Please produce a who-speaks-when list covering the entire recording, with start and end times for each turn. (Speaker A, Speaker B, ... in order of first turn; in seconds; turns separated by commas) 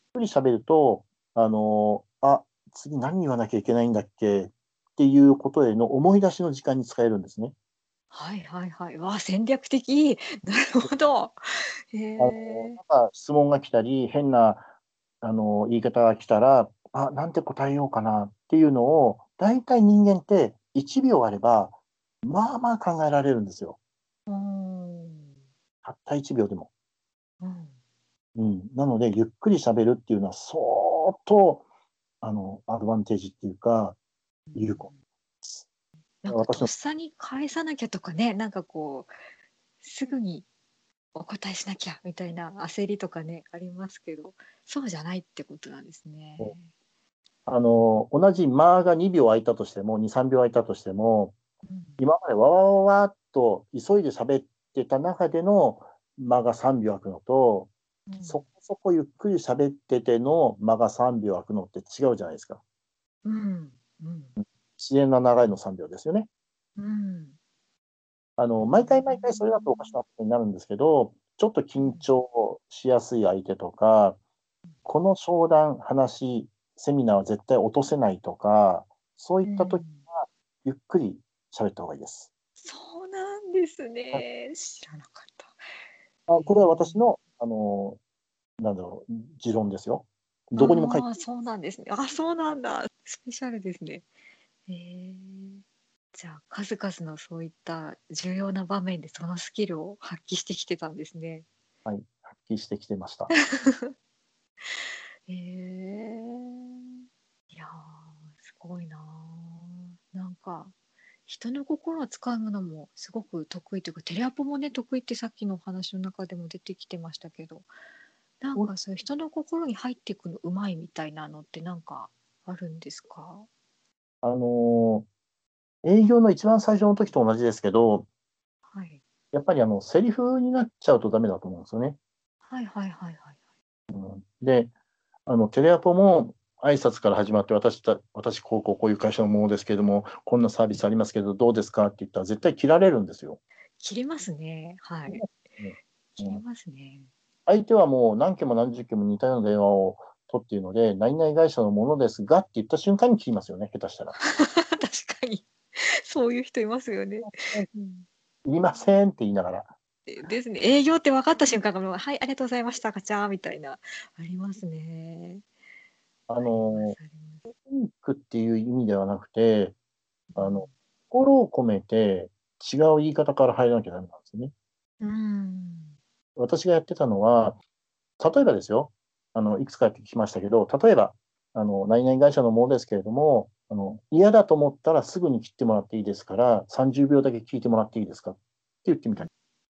Speaker A: 0.1-7.5, Speaker B: 8.1-12.8, Speaker A: 12.2-14.7, Speaker A: 15.2-23.8, Speaker B: 24.3-25.3, Speaker A: 25.8-26.7, Speaker B: 27.4-27.8, Speaker A: 28.4-31.6, Speaker A: 32.2-34.0, Speaker B: 34.5-35.0, Speaker A: 34.5-34.9, Speaker B: 36.2-39.1, Speaker A: 36.3-36.7, Speaker B: 39.8-40.5, Speaker B: 41.1-46.7, Speaker A: 47.5-51.4, Speaker B: 51.7-52.0, Speaker A: 52.0-57.7, Speaker B: 58.1-58.4, Speaker A: 58.2-62.6, Speaker B: 63.2-64.4, Speaker A: 64.8-66.3, Speaker B: 66.8-67.4, Speaker A: 68.4-74.2, Speaker B: 68.6-70.0, Speaker B: 71.8-72.1, Speaker A: 74.9-82.3, Speaker B: 79.5-80.0, Speaker B: 82.6-85.6, Speaker A: 86.3-88.0, Speaker B: 86.3-87.1, Speaker A: 88.6-91.1, Speaker B: 90.6-94.1, Speaker B: 94.7-95.6, Speaker B: 96.1-101.5, Speaker A: 101.8-103.3, Speaker B: 103.3-103.9, Speaker B: 105.3-106.9, Speaker B: 107.5-110.7, Speaker B: 111.3-117.7, Speaker B: 118.4-123.5, Speaker A: 124.2-125.1, Speaker A: 125.8-128.1, Speaker B: 128.7-129.0, Speaker A: 129.3-132.0, Speaker B: 132.5-133.3, Speaker A: 133.9-134.7, Speaker A: 135.3-143.4, Speaker B: 143.8-145.3, Speaker A: 145.1-146.4, Speaker B: 146.2-147.1, Speaker A: 147.5-154.2, Speaker B: 154.2-158.1, Speaker A: 157.2-157.7, Speaker A: 158.4-159.7, Speaker B: 160.1-165.4, Speaker A: 166.3-167.0, Speaker B: 166.4-167.5, Speaker A: 167.5-169.8, Speaker B: 170.3-170.7, Speaker A: 170.4-174.5, Speaker B: 175.0-176.0, Speaker A: 176.4-177.6, Speaker A: 178.2-189.3